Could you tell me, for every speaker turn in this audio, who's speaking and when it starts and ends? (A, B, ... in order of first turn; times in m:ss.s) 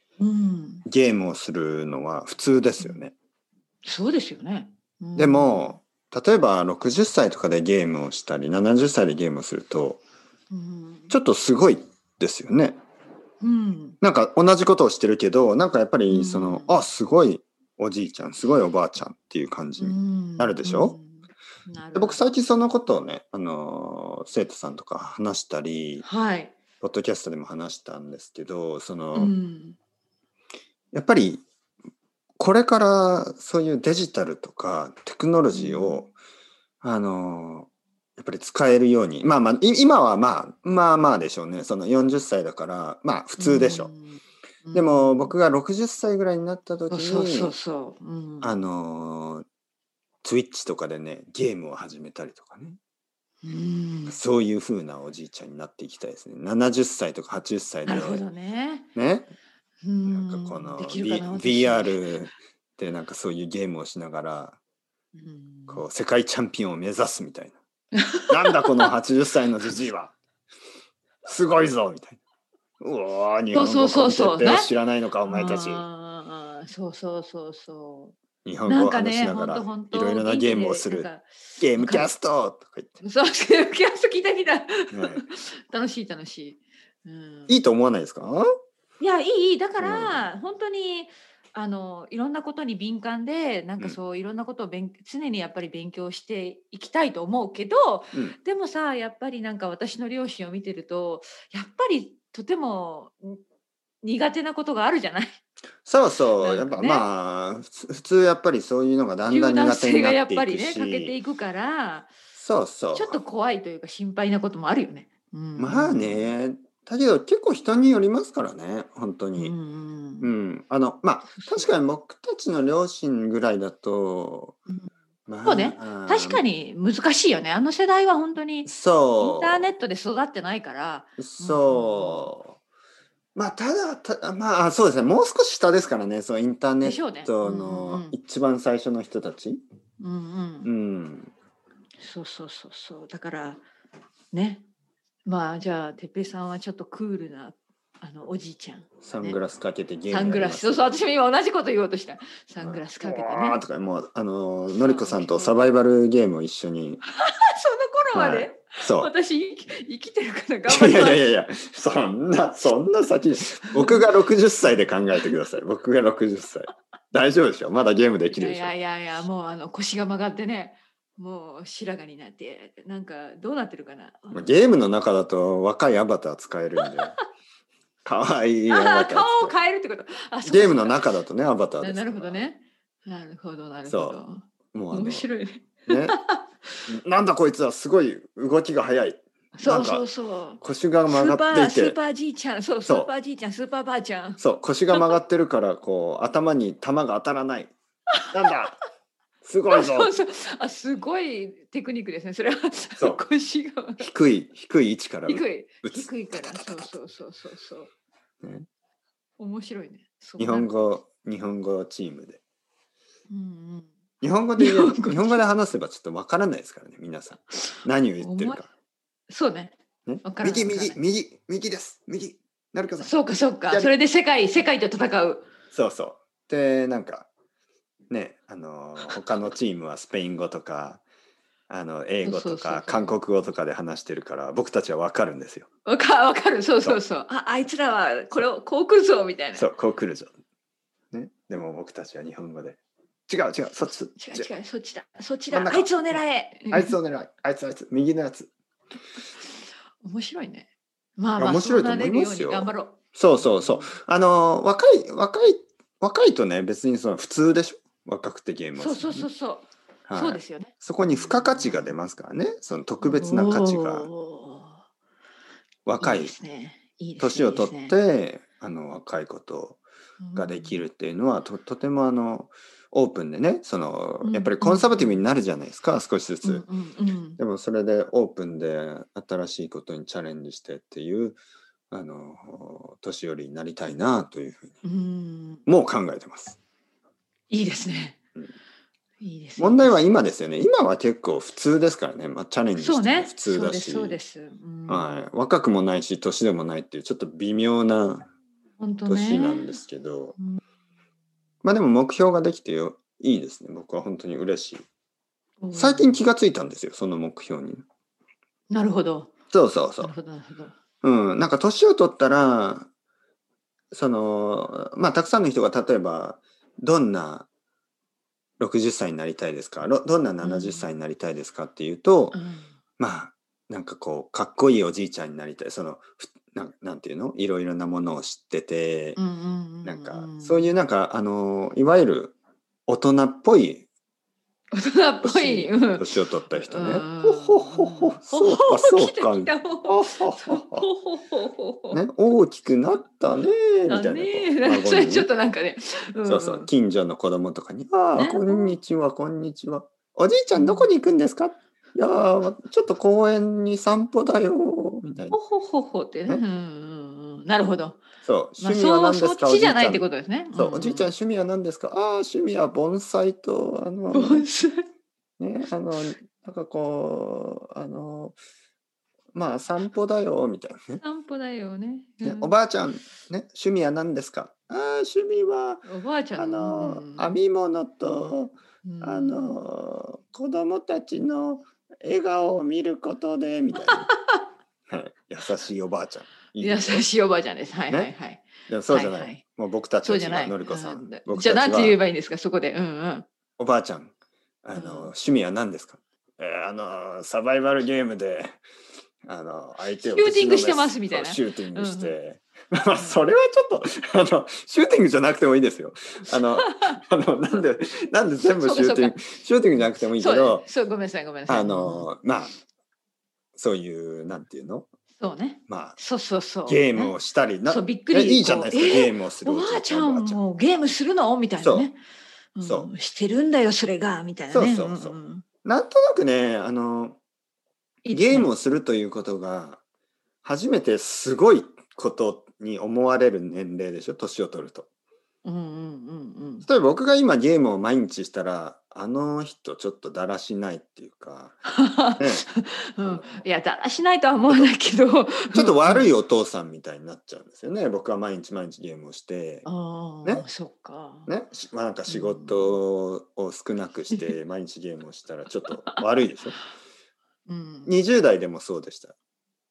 0:00.2-0:00.8 A
0:00.8-0:03.1 B
0:03.8-0:05.8 A
0:05.2-0:10.0 B
0:10.5-0:11.1 A
0:11.1-0:12.8 B
0:13.4-0:14.0 A
0:14.0-0:21.0 B
0:16.1-0:16.8 A
0:19.8-0:22.2 A
0:21.9-0:26.0 B
0:26.0-0:26.5 A
0:26.8-0:29.3 B
0:29.1-0:29.8 A
0:30.9-0:31.4 B
0:32.4-0:36.1 B
0:35.5-0:36.1 A
0:36.8-0:43.9 B
0:43.4-0:45.3 A
0:44.7-0:47.5 B
0:46.9-0:48.5 A
0:48.4-0:49.4 B
0:50.2-0:52.8 B
0:53.4-0:54.2 A
0:54.1-0:58.2 B
0:57.8-0:58.9 A
0:58.9-0:59.3 B
0:59.8-1:02.2 A
1:00.1-1:04.6 B
1:05.1-1:05.8 A
1:05.7-1:07.6 B
1:08.0-1:08.9 A
1:08.3-1:10.1 B
1:11.2-1:12.2 B
1:12.8-1:15.8 B
1:13.5-1:14.7 A
1:15.2-1:22.1 A
1:18.4-1:23.0 B
1:23.0-1:27.6 A
1:24.9-1:25.2 B
1:27.5-1:28.4 B
1:29.0-1:43.4 A
1:29.8-1:30.3 B
1:44.0-1:45.4 A
1:45.8-1:51.1 B
1:46.4-1:47.1 A
1:49.3-1:52.1 A
1:52.3-1:53.2 B
1:52.9-1:56.3 A
1:55.6-1:59.6 B
1:59.4-2:00.3 A
2:00.2-2:04.6 B
2:01.3-2:01.7 A
2:05.3-2:06.4 B
2:05.4-2:12.2 A
2:08.6-2:09.7 B
2:11.2-2:12.5 B
2:13.4-2:19.6 B
2:16.8-2:18.2 A
2:20.0-2:20.7 A
2:20.6-2:21.3 B
2:22.0-2:23.6 A
2:24.3-2:24.6 A
2:25.2-2:29.4 A
2:29.0-2:30.9 B
2:30.1-2:33.6 A
2:32.6-2:37.0 B
2:34.8-2:35.6 A
2:37.2-2:41.2 A
2:38.1-2:39.1 B
2:40.7-2:48.7 B
2:43.5-2:44.0 A
2:44.7-2:45.3 A
2:48.3-2:54.5 A
2:54.3-2:57.2 B
2:58.0-2:59.6 B
2:58.7-3:01.1 A
3:00.4-3:02.4 B
3:01.8-3:06.8 A
3:03.8-3:04.2 B
3:04.7-3:05.3 B
3:05.9-3:06.2 B
3:06.9-3:10.0 B
3:09.6-3:14.4 A
3:10.6-3:12.0 B
3:12.8-3:13.1 B
3:14.4-3:17.7 B
3:18.3-3:18.8 B
3:19.4-3:20.1 B
3:19.7-3:24.0 A
3:24.0-3:26.9 B
3:25.3-3:27.9 A
3:29.4-3:30.7 A
3:30.4-3:32.4 B
3:33.3-3:33.9 A
3:34.2-3:38.7 B
3:34.6-3:35.4 A
3:38.2-3:38.6 A
3:39.3-3:41.0 A
3:40.0-3:43.1 B
3:43.0-3:45.5 A
3:43.7-3:43.9 B
3:45.7-3:47.3 B
3:48.1-3:51.0 B
3:51.7-3:55.7 B
3:52.2-3:53.2 A
3:55.8-3:59.7 A
3:59.6-4:00.3 B
4:01.1-4:04.5 B
4:04.1-4:06.9 A
4:05.5-4:08.5 B
4:09.3-4:13.9 A
4:11.4-4:19.3 B
4:18.8-4:22.0 A
4:20.1-4:24.1 B
4:23.0-4:24.8 A
4:25.8-4:26.3 B
4:26.0-4:28.0 A
4:27.2-4:29.8 B
4:30.2-4:30.8 A
4:30.4-4:36.6 B
4:34.2-4:35.2 A
4:36.4-4:37.4 A
4:37.4-4:41.4 B
4:41.9-4:44.8 B
4:44.8-4:45.6 A
4:45.7-4:46.6 B
4:47.5-4:48.2 A
4:49.2-4:50.0 A
4:49.6-4:54.2 B
4:52.8-4:55.2 A
4:54.9-4:58.2 B
4:58.8-4:59.8 A
4:59.0-5:00.4 B
5:01.6-5:04.8 B
5:05.6-5:06.2 A
5:05.7-5:07.8 B
5:08.7-5:09.3 A
5:09.5-5:10.1 B
5:10.0-5:10.7 A
5:11.0-5:12.9 B
5:13.9-5:17.5 B
5:18.6-5:22.4 B
5:20.4-5:20.9 A
5:22.3-5:22.7 A
5:23.0-5:29.2 B
5:29.2-5:30.7 A
5:29.8-5:32.3 B
5:32.9-5:33.9 B
5:34.7-5:42.0 A
5:35.2-5:40.8 B
5:41.9-5:45.3 B
5:43.9-5:46.7 A
5:46.2-5:55.4 B
5:48.2-5:48.8 A
5:50.5-5:50.9 A
5:55.3-5:58.0 A
5:58.2-6:04.5 B
5:58.6-6:01.1 A
6:04.1-6:04.8 A
6:05.4-6:08.4 B
6:09.3-6:11.0 B
6:11.0-6:12.5 A
6:12.2-6:24.1 B
6:15.8-6:17.3 A
6:18.8-6:19.6 A
6:23.8-6:24.4 A
6:24.9-6:27.0 B
6:26.6-6:29.4 A
6:28.7-6:32.0 B
6:30.0-6:33.3 A
6:33.6-6:34.1 B
6:34.6-6:38.6 B
6:34.7-6:35.1 A
6:39.2-6:50.6 B
6:39.9-6:42.1 A
6:42.9-6:43.2 A
6:46.4-6:47.0 A
6:48.4-6:49.2 A
6:49.8-6:52.1 A
6:51.5-6:52.5 B
6:53.6-6:54.9 B
6:55.2-6:57.1 A
6:55.7-6:56.0 B
6:56.6-7:00.4 B
6:57.7-7:02.0 A
7:01.6-7:01.9 B
7:02.5-7:05.4 A
7:02.6-7:02.9 B
7:04.5-7:07.2 B
7:08.0-7:08.5 A
7:08.1-7:09.8 B
7:10.4-7:14.9 B
7:15.4-7:16.6 A
7:16.6-7:21.6 B
7:21.7-7:26.1 A
7:22.2-7:22.4 B
7:23.0-7:23.3 B
7:25.5-7:29.7 B
7:29.6-7:31.3 A
7:31.3-7:36.6 B
7:32.1-7:32.8 A
7:37.5-7:38.0 A
7:37.8-7:39.1 B